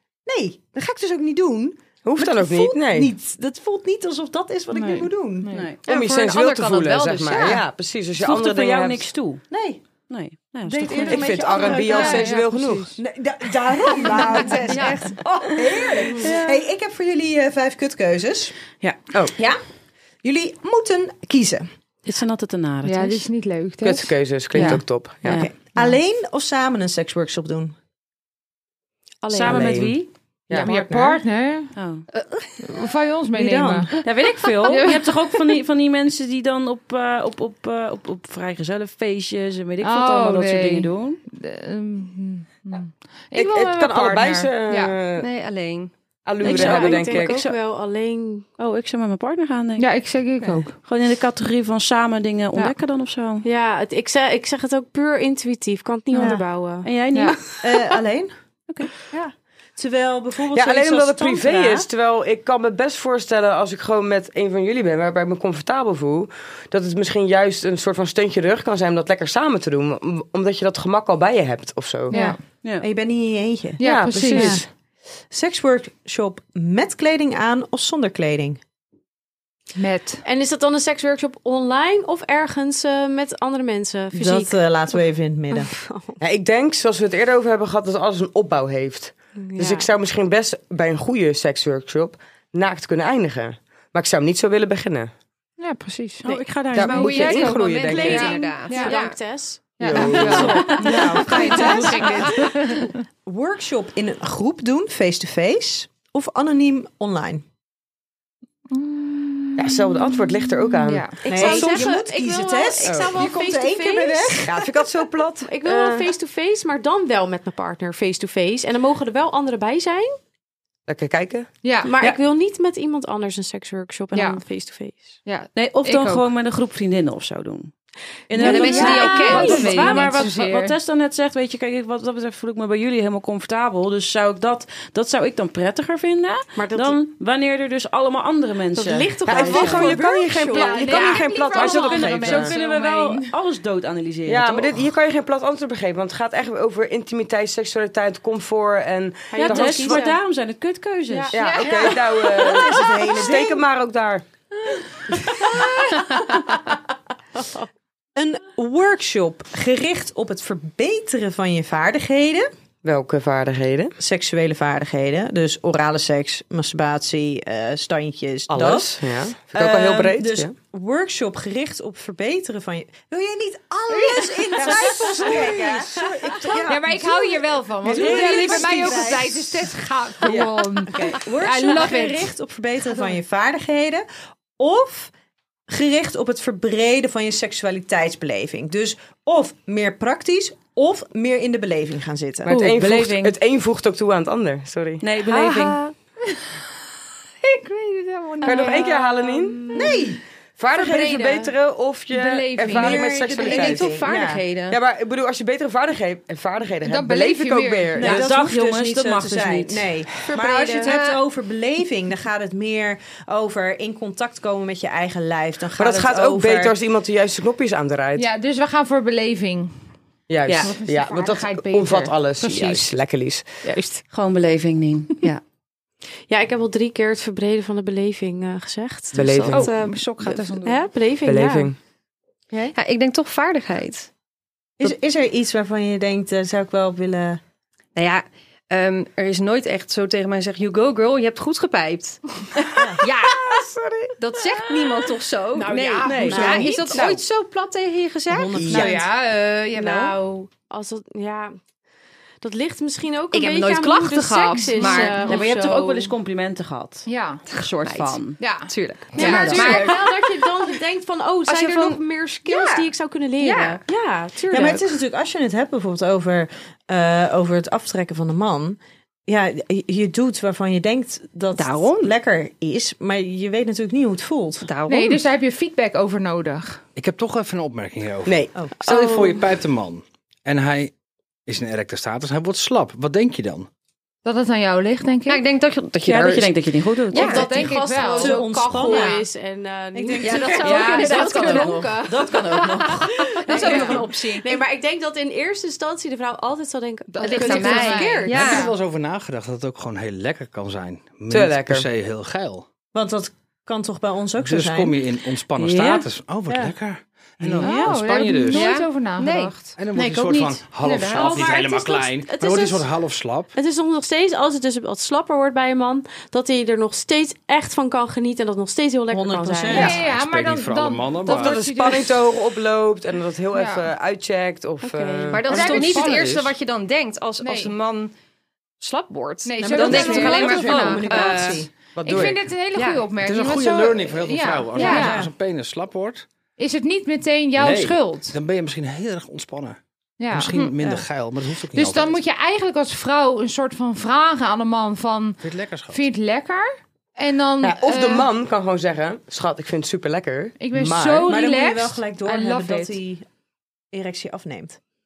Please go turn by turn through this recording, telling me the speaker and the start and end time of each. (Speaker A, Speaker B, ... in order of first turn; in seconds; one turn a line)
Speaker A: 0.2-5.6
Speaker B: 2.0-3.1
Speaker C: 4.7-5.7
Speaker D: 5.5-5.8
Speaker B: 5.8-9.1
Speaker E: 6.2-6.7
Speaker A: 7.3-7.6
Speaker D: 8.2-9.4
Speaker A: 9.5-9.8
Speaker D: 10.1-11.2
Speaker A: 10.6-12.4
Speaker B: 11.1-12.9
Speaker C: 11.6-13.0
Speaker A: 12.9-18.5
Speaker E: 14.7-15.0
Speaker F: 16.0-16.3
Speaker A: 19.4-19.6
Speaker A: 20.2-21.7
Speaker D: 22.0-23.2
Speaker C: 22.8-24.8
Speaker B: 23.8-25.4
Speaker D: 24.6-25.5
Speaker A: 25.3-27.7
Speaker F: 29.2-29.8
Speaker D: 29.3-30.1
Speaker B: 29.4-30.7
Speaker C: 30.5-31.8
Speaker A: 30.5-31.2
Speaker D: 31.7-32.0
Speaker C: 32.6-34.0
Speaker A: 33.3-33.9
Speaker D: 34.0-41.2
Speaker C: 34.6-35.5
Speaker C: 39.8-45.0
Speaker B: 43.3-45.2
Speaker E: 45.2-45.9
Speaker B: 46.2-47.4
Speaker D: 46.4-47.6
Speaker F: 46.5-48.5
Speaker D: 48.6-49.9
Speaker C: 49.8-50.8
Speaker D: 50.8-53.4
Speaker F: 53.4-56.9
Speaker A: 56.1-56.4
Speaker D: 56.1-57.4
Speaker C: 57.1-57.4
Speaker A: 57.6-58.3
Speaker A: 59.1-61.9
Speaker B: 60.5-72.2
Speaker C: 72.1-72.4
Speaker A: 72.1-74.6
Speaker C: 73.8-74.6
Speaker B: 73.8-74.7
Speaker A: 75.3-78.6
Speaker C: 79.8-80.2
Speaker F: 80.2-84.6
Speaker A: 84.1-85.7
Speaker F: 85.5-86.2
Speaker B: 86.2-95.1
Speaker F: 89.4-89.9
Speaker C: 95.6-99.0
Speaker D: 96.2-97.0
Speaker B: 96.7-98.3
Speaker E: 96.7-99.2
Speaker F: 97.8-102.2
Speaker C: 99.8-103.0
Speaker B: 99.8-100.8
Speaker A: 100.1-102.5
Speaker A: 103.2-107.4
Speaker C: 108.7-111.7
Speaker B: 109.6-111.9
Speaker F: 111.2-114.5
Speaker A: 111.2-114.7
Speaker B: 112.8-113.1
Speaker B: 114.5-116.1
Speaker F: 115.4-120.2
Speaker B: 120.9-121.5
Speaker C: 121.6-122.0
Speaker F: 121.8-125.1
Speaker C: 124.1-124.4
Speaker C: 125.2-126.3
Speaker D: 125.5-127.7
Speaker D: 128.3-139.9
Speaker E: 128.4-130.2
Speaker F: 128.4-130.1
Speaker C: 128.4-130.8
Speaker F: 136.5-137.0
Speaker F: 138.7-141.0
Speaker B: 139.2-142.6
Speaker C: 139.6-139.9
Speaker C: 140.4-143.3
Speaker D: 140.9-144.8
Speaker B: 144.3-150.0
Speaker F: 149.3-150.2
Speaker D: 149.4-151.3
Speaker F: 151.1-151.4
Speaker B: 151.3-154.2
Speaker C: 151.3-152.3
Speaker A: 151.6-153.6
Speaker F: 157.3-157.6
Speaker A: 158.2-162.5
Speaker B: 162.8-163.9
Speaker A: 164.0-179.7
Speaker B: 168.5-170.5
Speaker B: 174.0-176.6
Speaker F: 174.6-175.3
Speaker C: 176.7-182.3
Speaker B: 177.8-179.1
Speaker B: 180.2-181.1
Speaker A: 180.9-184.0
Speaker A: 184.6-185.1
Speaker A: 185.7-192.5
Speaker B: 192.4-195.0
Speaker D: 192.5-193.3
Speaker D: 195.0-195.8
Speaker A: 195.3-195.7
Speaker C: 197.4-199.2
Speaker B: 198.4-199.6
Speaker F: 198.4-200.0
Speaker A: 199.7-200.2
Speaker B: 200.6-204.0
Speaker A: 200.8-201.2
Speaker C: 202.1-203.5
Speaker A: 202.7-204.4
Speaker E: 203.4-204.8
Speaker B: 204.7-208.3
Speaker C: 206.8-208.1
Speaker A: 208.0-216.7
Speaker D: 208.1-209.9
Speaker F: 210.3-210.9
Speaker E: 210.8-211.2
Speaker B: 215.8-218.3
Speaker C: 218.2-219.7
Speaker B: 220.3-223.6
Speaker C: 220.6-222.9
Speaker F: 223.6-224.0
Speaker D: 224.1-225.3
Speaker F: 226.3-229.8
Speaker B: 229.1-229.7
Speaker E: 229.5-230.7
Speaker C: 229.5-230.7
Speaker F: 230.6-231.7
Speaker B: 231.2-231.8
Speaker E: 232.7-234.1
Speaker A: 234.8-237.4
Speaker E: 237.9-243.7
Speaker A: 242.7-243.0
Speaker B: 243.2-244.1
Speaker E: 244.2-250.1
Speaker D: 245.6-246.7
Speaker F: 245.7-246.1
Speaker A: 246.2-246.8
Speaker B: 246.8-247.2
Speaker A: 248.3-249.1
Speaker B: 248.5-249.0
Speaker C: 248.7-250.0
Speaker F: 249.7-251.6
Speaker F: 252.4-256.1
Speaker E: 253.3-255.3
Speaker C: 254.6-255.3
Speaker D: 255.2-258.6
Speaker C: 257.1-257.4
Speaker E: 257.5-260.0
Speaker C: 258.4-260.0
Speaker D: 259.1-259.9
Speaker F: 259.1-264.9
Speaker E: 261.5-262.8
Speaker E: 263.4-263.8
Speaker A: 264.5-274.7
Speaker E: 271.6-272.1
Speaker E: 274.6-275.2
Speaker C: 274.9-276.8
Speaker G: 276.9-280.9
Speaker B: 278.2-278.5
Speaker F: 278.8-279.5
Speaker G: 281.4-283.7
Speaker C: 284.2-285.4
Speaker E: 285.3-286.5
Speaker D: 286.0-287.4
Speaker E: 287.1-287.8
Speaker F: 287.1-298.6
Speaker C: 287.2-289.2
Speaker A: 288.2-289.2
Speaker A: 289.9-294.1
Speaker E: 290.2-291.9
Speaker D: 290.6-292.7
Speaker E: 293.2-294.6
Speaker C: 297.1-298.7
Speaker E: 297.2-298.7
Speaker G: 298.3-302.6
Speaker B: 301.3-301.9
Speaker A: 302.9-304.9
Speaker G: 304.4-308.7
Speaker D: 305.6-306.1
Speaker A: 306.5-306.7
Speaker C: 307.6-309.8
Speaker E: 307.6-309.7
Speaker G: 309.8-313.5
Speaker D: 309.9-310.6
Speaker E: 310.8-311.6
Speaker F: 311.1-312.9
Speaker F: 313.5-320.0
Speaker A: 319.1-320.0
Speaker C: 319.7-322.2
Speaker G: 319.7-321.7
Speaker B: 321.2-326.5
Speaker C: 323.5-323.9
Speaker F: 324.8-326.0
Speaker E: 325.3-328.1
Speaker A: 325.5-326.1
Speaker C: 325.6-326.1
Speaker C: 327.4-327.7
Speaker E: 328.8-331.7
Speaker C: 329.4-331.4
Speaker A: 329.6-331.7
Speaker B: 332.0-332.4
Speaker C: 332.0-335.3
Speaker E: 332.7-333.1
Speaker G: 333.2-336.2
Speaker E: 334.8-335.1
Speaker A: 334.8-335.3
Speaker C: 336.6-338.4
Speaker G: 337.6-339.8
Speaker C: 340.2-340.8
Speaker G: 340.3-342.2
Speaker A: 340.8-341.0
Speaker C: 341.7-348.3
Speaker G: 345.4-346.1
Speaker B: 347.6-351.3
Speaker C: 350.6-353.0
Speaker A: 351.2-353.2
Speaker A: 353.9-354.8